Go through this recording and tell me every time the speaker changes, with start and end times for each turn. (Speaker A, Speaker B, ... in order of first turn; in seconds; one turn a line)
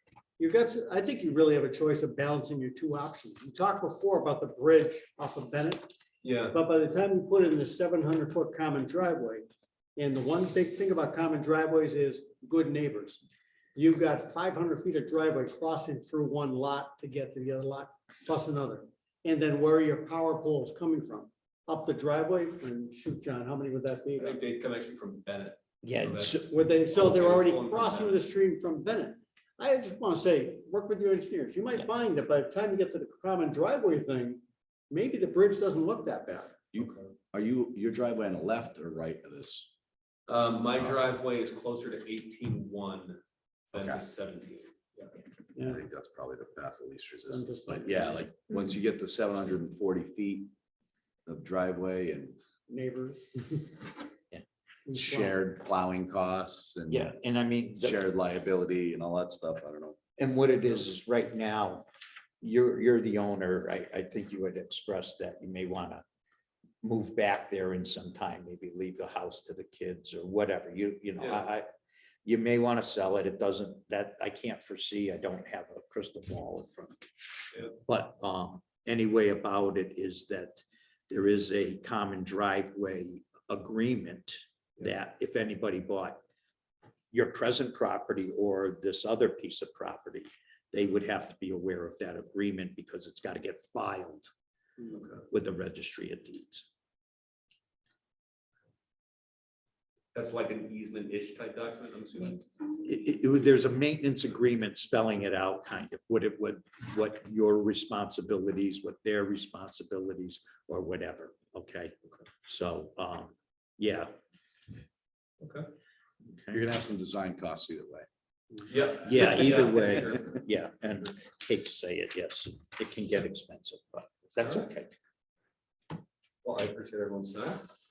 Speaker A: 0.4-5.9
Speaker B: 6.2-6.6
Speaker A: 6.5-13.2
Speaker A: 13.8-24.4
Speaker B: 24.2-28.2
Speaker C: 25.8-26.5
Speaker A: 26.5-36.7
Speaker D: 36.7-39.7
Speaker B: 40.3-43.2
Speaker D: 40.7-41.0
Speaker B: 43.7-44.7
Speaker D: 43.8-44.0
Speaker A: 45.6-45.8
Speaker D: 45.6-50.5
Speaker A: 47.3-48.1
Speaker D: 51.3-52.4
Speaker A: 52.7-53.8
Speaker D: 54.3-57.1
Speaker A: 54.9-55.4
Speaker C: 56.9-58.0
Speaker D: 57.8-60.0
Speaker C: 60.2-61.9
Speaker C: 62.4-66.0
Speaker C: 66.8-71.7
Speaker B: 71.2-71.5
Speaker C: 72.2-77.0
Speaker C: 77.9-86.2
Speaker C: 87.1-94.3
Speaker B: 94.9-95.2
Speaker C: 95.3-96.7
Speaker B: 100.1-102.5
Speaker C: 102.8-111.9
Speaker C: 112.5-114.1
Speaker B: 115.4-115.7
Speaker C: 116.3-116.6
Speaker D: 116.5-118.1
Speaker B: 118.7-120.4
Speaker C: 119.0-125.0
Speaker B: 124.4-124.7
Speaker B: 126.4-127.7